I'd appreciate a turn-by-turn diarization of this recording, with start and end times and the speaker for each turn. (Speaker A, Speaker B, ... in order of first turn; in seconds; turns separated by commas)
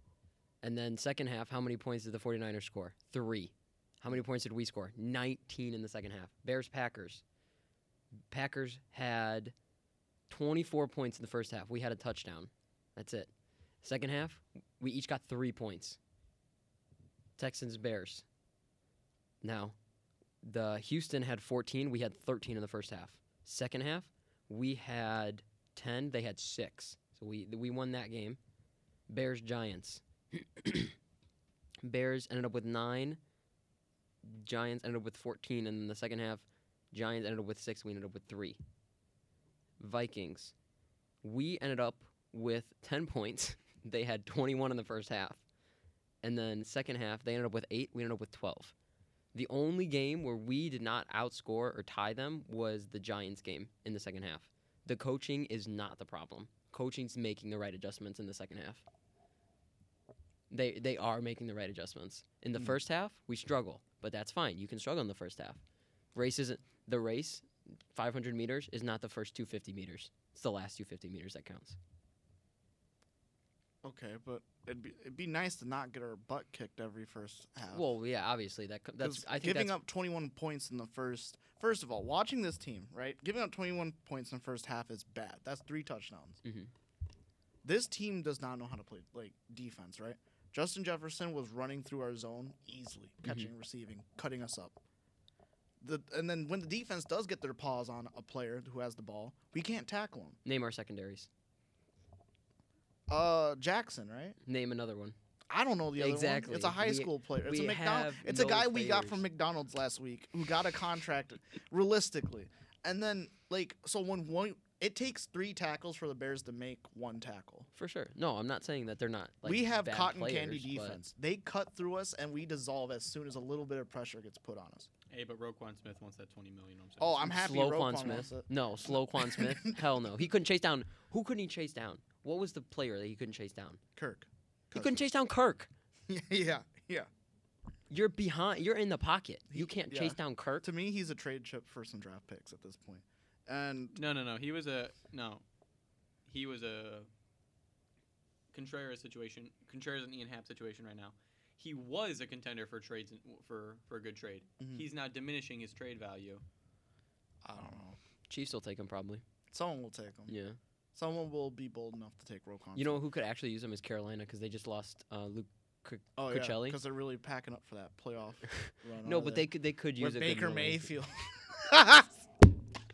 Speaker A: 0.6-7.2, Speaker A: 8.3-9.5, Speaker A: 10.3-13.3, Speaker A: 13.8-16.0, Speaker A: 17.4-18.2, Speaker A: 19.4-19.8, Speaker A: 20.4-28.4, Speaker A: 29.1-30.9, Speaker A: 31.8-33.2, Speaker A: 34.2-38.6, Speaker A: 39.8-40.5, Speaker A: 41.2-45.4, Speaker A: 46.2-48.7, Speaker A: 49.3-58.8, Speaker A: 60.5-65.6, Speaker A: 66.1-71.8, Speaker B: 73.8-77.9, Speaker A: 77.7-79.8, Speaker B: 79.0-86.4, Speaker A: 86.4-86.7, Speaker B: 87.6-94.8, Speaker A: 93.2-93.5, Speaker B: 95.8-100.4, Speaker A: 100.4-101.3, Speaker B: 103.1-104.4, Speaker A: 104.4-105.2, Speaker B: 105.5-117.7, Speaker A: 106.0-109.2, Speaker A: 117.7-121.0, Speaker B: 119.4-124.9, Speaker C: 125.1-127.3, Speaker B: 127.0-130.0, Speaker A: 127.2-133.8, Speaker B: 133.9-135.1, Speaker A: 134.7-135.7, Speaker B: 136.1-137.1, Speaker A: 137.9-140.7, Speaker B: 139.5-144.0, Speaker C: 143.9-145.4, Speaker C: 146.2-147.1, Speaker C: 148.5-156.4, Speaker B: 154.6-154.9, Speaker B: 157.4-158.0, Speaker A: 158.3-159.2, Speaker B: 159.5-160.3, Speaker A: 160.3-160.6, Speaker B: 160.9-163.0, Speaker A: 162.8-166.8, Speaker B: 166.2-172.3, Speaker A: 168.5-170.9